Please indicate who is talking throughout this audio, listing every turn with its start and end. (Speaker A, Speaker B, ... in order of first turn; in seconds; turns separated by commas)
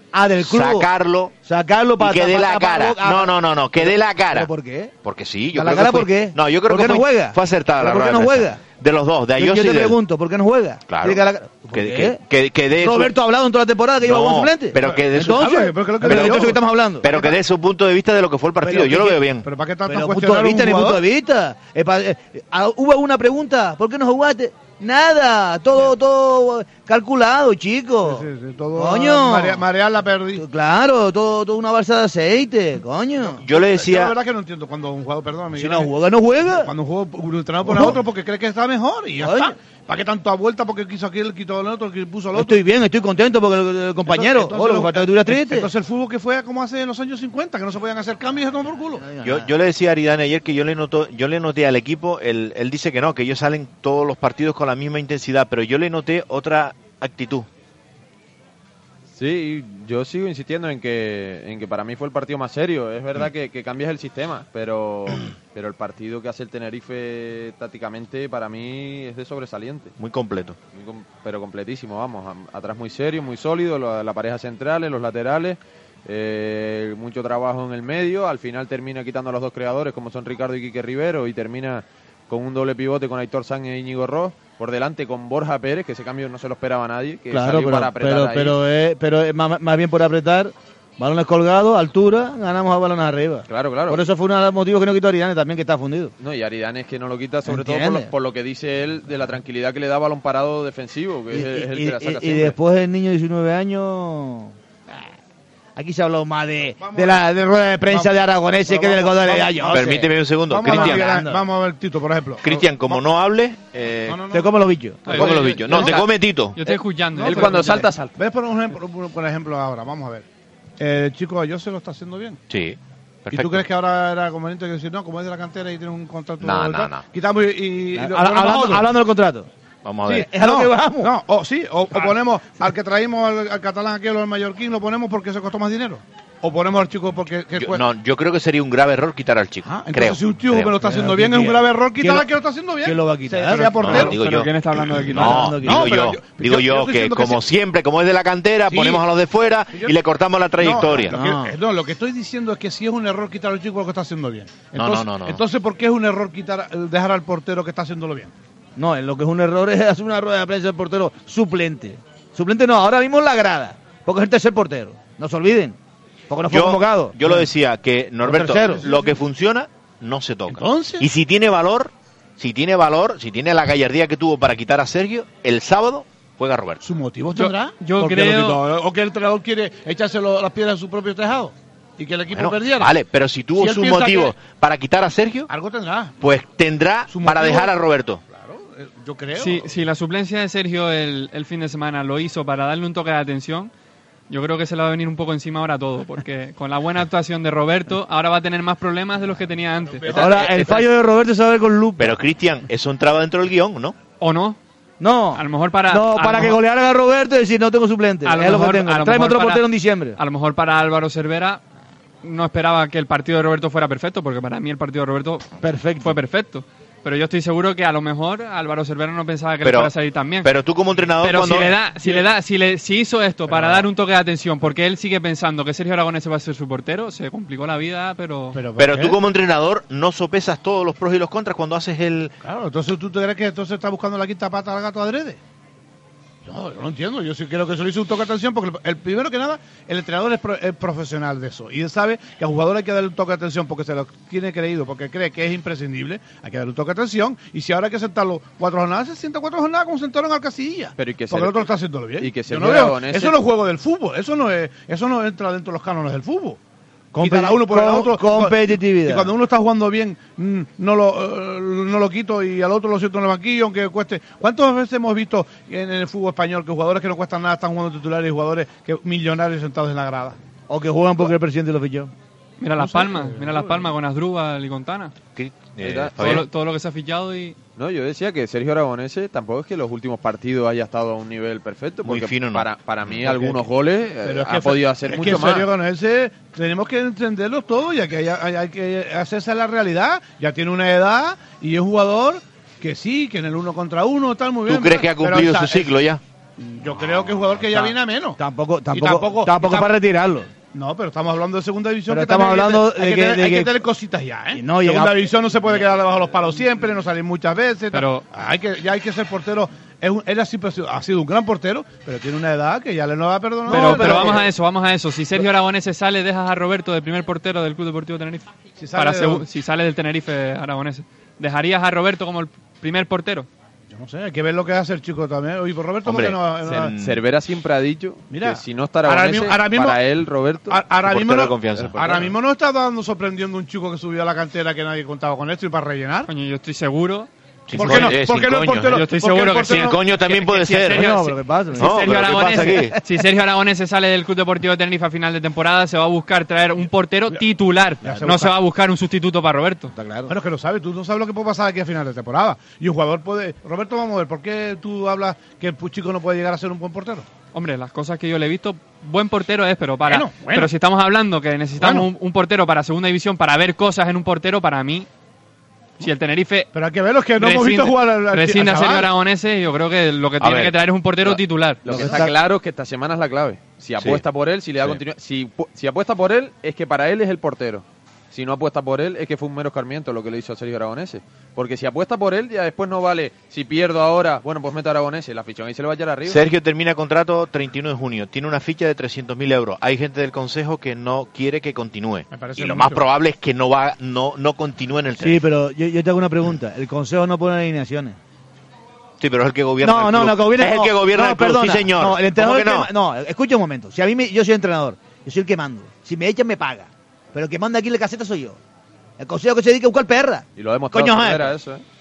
Speaker A: 0.1-0.9, Speaker B: 0.4-1.3, Speaker A: 1.4-4.9, Speaker B: 2.0-4.5, Speaker B: 5.0-10.0, Speaker A: 5.5-8.6, Speaker A: 9.3-12.2, Speaker B: 10.9-13.1, Speaker A: 12.8-17.3, Speaker B: 14.0-19.4, Speaker C: 14.8-17.2, Speaker A: 18.6-19.2, Speaker C: 19.4-21.0, Speaker A: 19.9-28.2, Speaker C: 28.0-30.4, Speaker A: 28.8-29.6, Speaker A: 30.4-33.4, Speaker C: 33.3-35.9, Speaker B: 33.4-34.1, Speaker A: 35.5-36.7, Speaker C: 36.5-42.6, Speaker A: 37.6-38.0, Speaker A: 39.2-39.5, Speaker A: 42.3-45.7, Speaker C: 44.0-49.0, Speaker A: 49.0-49.5, Speaker B: 49.2-57.5, Speaker D: 59.1-69.9, Speaker B: 70.0-70.6, Speaker D: 70.7-88.6, Speaker A: 87.3-96.1, Speaker D: 93.5-94.0, Speaker D: 96.2-102.5, Speaker A: 97.5-98.1, Speaker A: 101.3-105.0, Speaker A: 105.8-111.4, Speaker C: 106.8-107.2, Speaker C: 107.9-108.1, Speaker C: 108.7-113.0, Speaker B: 109.7-111.2, Speaker B: 112.4-114.2, Speaker C: 114.0-114.5, Speaker A: 114.3-115.3, Speaker E: 115.0-117.8, Speaker C: 115.0-116.0, Speaker B: 115.1-116.7, Speaker C: 117.1-120.2, Speaker D: 117.2-118.2, Speaker C: 120.8-122.4, Speaker B: 122.5-123.7, Speaker C: 123.3-128.9, Speaker B: 126.4-127.1, Speaker A: 127.9-129.5, Speaker B: 129.8-130.3, Speaker C: 130.1-137.8, Speaker A: 130.1-131.1, Speaker B: 137.5-140.8, Speaker C: 139.6-147.4, Speaker A: 140.8-142.3, Speaker A: 142.8-144.2, Speaker B: 143.8-144.5, Speaker E: 144.2-145.5, Speaker A: 145.1-146.0, Speaker B: 145.1-151.1, Speaker C: 148.7-149.0, Speaker C: 150.6-158.3, Speaker A: 151.1-151.5, Speaker B: 154.7-155.4, Speaker A: 158.8-165.8, Speaker A: 166.3-167.4, Speaker B: 166.5-176.8, Speaker A: 168.2-168.8, Speaker C: 170.5-171.1, Speaker C: 176.8-182.9, Speaker E: 177.3-178.6, Speaker B: 182.3-185.5, Speaker C: 183.6-184.3, Speaker C: 185.5-186.1, Speaker B: 186.2-188.2, Speaker C: 187.1-187.7, Speaker C: 188.3-189.8, Speaker E: 189.3-193.7, Speaker E: 194.3-200.3, Speaker C: 199.8-200.6, Speaker A: 200.1-202.2, Speaker D: 200.4-200.8, Speaker B: 202.0-203.9, Speaker E: 204.2-204.6, Speaker A: 205.0-210.2, Speaker E: 205.3-206.6, Speaker E: 208.2-209.6, Speaker E: 210.2-211.6, Speaker E: 212.2-215.5, Speaker A: 215.6-216.2, Speaker E: 216.0-220.5, Speaker B: 219.6-219.9, Speaker B: 220.4-221.8, Speaker E: 221.2-228.6, Speaker C: 223.5-223.8, Speaker C: 228.5-229.2, Speaker B: 228.8-232.3, Speaker C: 232.4-235.4, Speaker C: 236.4-256.6, Speaker D: 251.0-251.7, Speaker D: 252.2-253.4, Speaker C: 257.1-270.4, Speaker A: 257.2-259.3, Speaker A: 270.7-272.1, Speaker E: 272.6-275.1, Speaker C: 272.8-273.9, Speaker B: 275.4-276.5, Speaker D: 275.8-276.4, Speaker E: 276.1-277.6, Speaker D: 277.8-285.7, Speaker B: 282.0-283.2, Speaker C: 283.2-283.6, Speaker C: 284.2-295.9, Speaker B: 294.7-296.2, Speaker C: 296.6-298.4, Speaker A: 297.7-300.5, Speaker C: 298.9-299.9, Speaker C: 300.7-314.5, Speaker A: 302.1-303.8, Speaker A: 304.5-305.2, Speaker E: 307.9-308.2, Speaker E: 313.6-323.5, Speaker C: 318.8-319.4, Speaker C: 323.9-326.9, Speaker B: 326.0-327.2, Speaker D: 326.6-330.8, Speaker C: 328.3-330.0, Speaker C: 330.7-336.3, Speaker B: 331.0-332.3, Speaker D: 331.7-332.3, Speaker E: 336.3-338.2, Speaker B: 337.7-339.0, Speaker C: 337.7-339.9, Speaker E: 338.8-349.9, Speaker B: 339.7-341.1, Speaker A: 340.9-342.6, Speaker B: 341.8-343.0, Speaker C: 348.0-348.6, Speaker A: 348.0-348.4, Speaker A: 349.9-350.3, Speaker C: 350.3-357.3, Speaker E: 357.5-365.1, Speaker C: 360.0-360.7, Speaker C: 361.8-362.1, Speaker E: 366.0-366.7, Speaker C: 366.7-369.1, Speaker E: 367.4-372.1, Speaker B: 370.4-370.7, Speaker D: 371.2-386.4, Speaker A: 371.9-372.3, Speaker B: 374.0-374.2, Speaker B: 386.2-395.4, Speaker C: 392.3-393.0, Speaker A: 395.2-398.2, Speaker B: 399.2-402.9, Speaker A: 399.8-408.6, Speaker A: 409.2-411.5, Speaker D: 410.6-411.8